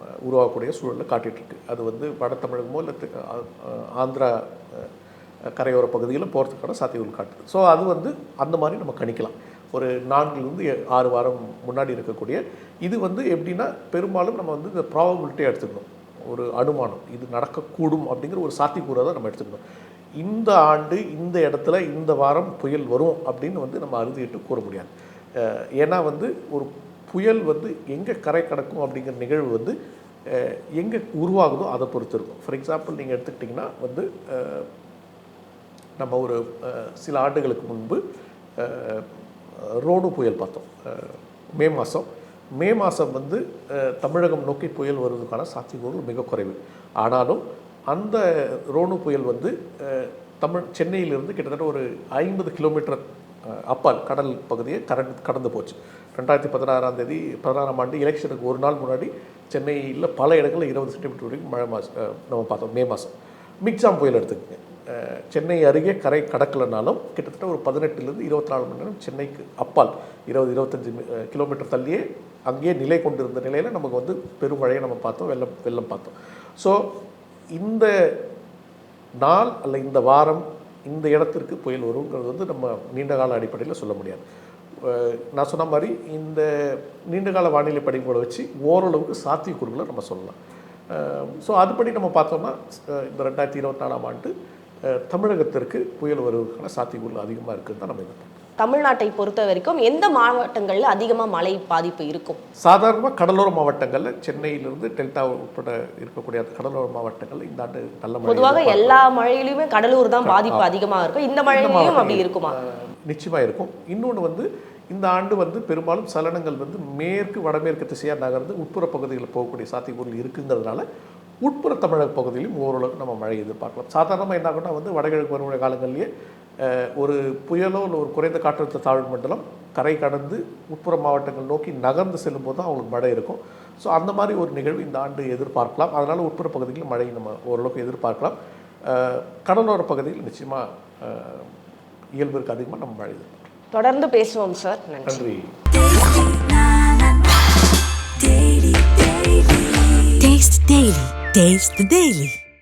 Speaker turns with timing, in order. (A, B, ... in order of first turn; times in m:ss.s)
0:00.2-0:04.9 A
0:05.5-0:19.6 A
0:20.2-0:29.8 A
0:30.3-0:34.7 A
0:36.0-0:38.0 A
0:38.6-1:16.9 A
1:17.6-1:18.1 A
1:19.2-1:24.2 A
1:24.8-1:30.4 A
1:30.9-1:34.3 A
1:34.9-1:38.4 A
1:38.6-1:42.4 B
1:42.6-1:49.0 A
1:48.2-1:52.6 B
1:50.2-1:50.7 A
1:51.5-2:00.8 A
2:01.4-2:06.1 A
2:06.6-2:21.5 A
2:22.2-2:23.5 A
2:23.7-2:25.2 B
2:25.0-2:25.5 A
2:25.8-2:27.4 B
2:28.2-2:30.1 B
2:30.2-2:32.4 C